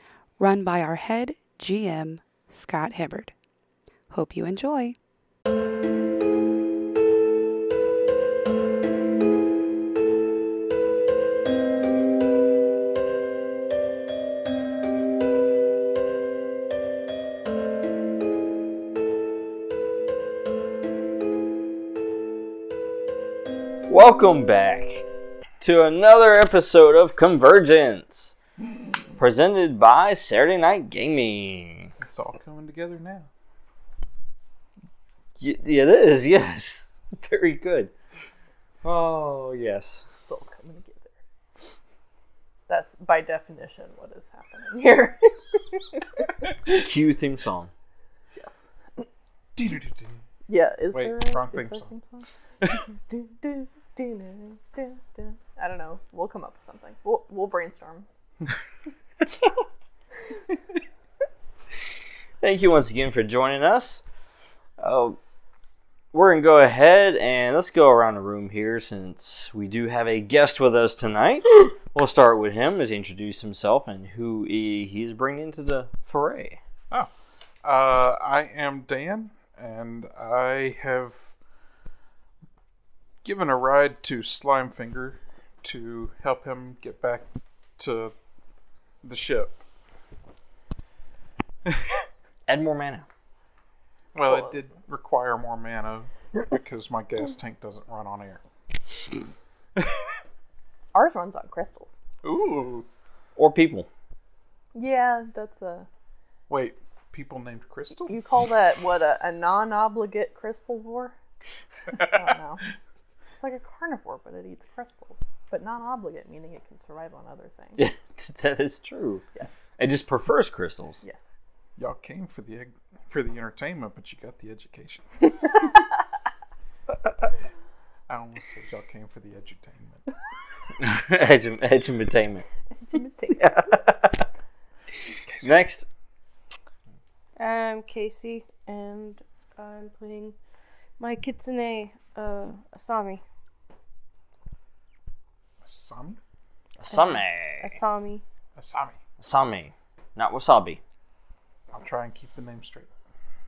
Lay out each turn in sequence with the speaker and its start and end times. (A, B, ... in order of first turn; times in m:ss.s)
0:00.4-0:03.3 A
0:04.1-0:05.0 A
0:23.9-0:25.0 B
0:25.6-0:28.3 B
0:29.2-0:31.9 B
0:32.0-0:33.3 C
0:35.4-0:37.9 B
0:38.8-0:40.0 B
0:40.3-0:41.1 D
0:42.7-0:46.0 D
0:46.7-0:47.7 B
0:48.3-0:49.0 D
0:49.6-0:50.2 C
0:50.5-0:52.3 D
0:50.9-0:51.9 C
0:52.9-0:58.1 D
1:02.4-1:04.0 B
1:04.8-1:05.2 B
1:06.1-1:16.6 B
1:17.6-1:21.3 C
1:23.2-1:27.3 C
1:27.8-1:28.1 C
1:29.0-1:29.6 C
1:32.5-1:33.0 B
1:34.1-1:38.4 C
1:34.2-1:34.6 D
1:40.9-1:42.0 D
1:42.2-1:42.8 C
1:43.4-1:43.9 B
1:44.7-1:45.9 D
1:46.5-1:48.2 C
1:48.1-1:51.1 D
1:52.0-1:52.6 D
1:53.4-1:57.9 D
1:57.8-1:59.2 B
1:59.8-2:01.0 B
2:01.0-2:01.3 D
2:01.8-2:05.0 C
2:08.1-2:10.1 C
2:10.8-2:12.4 B
2:12.8-2:13.5 D
2:13.3-2:14.2 B
2:15.2-2:15.6 C
2:15.4-2:15.8 B
2:17.4-2:20.4 E
2:21.0-2:23.2 E
2:25.6-2:26.2 C
2:26.8-2:27.8 B
2:26.9-2:28.2 E
2:28.5-2:29.0 C
2:29.2-2:30.8 B
2:31.7-2:32.9 C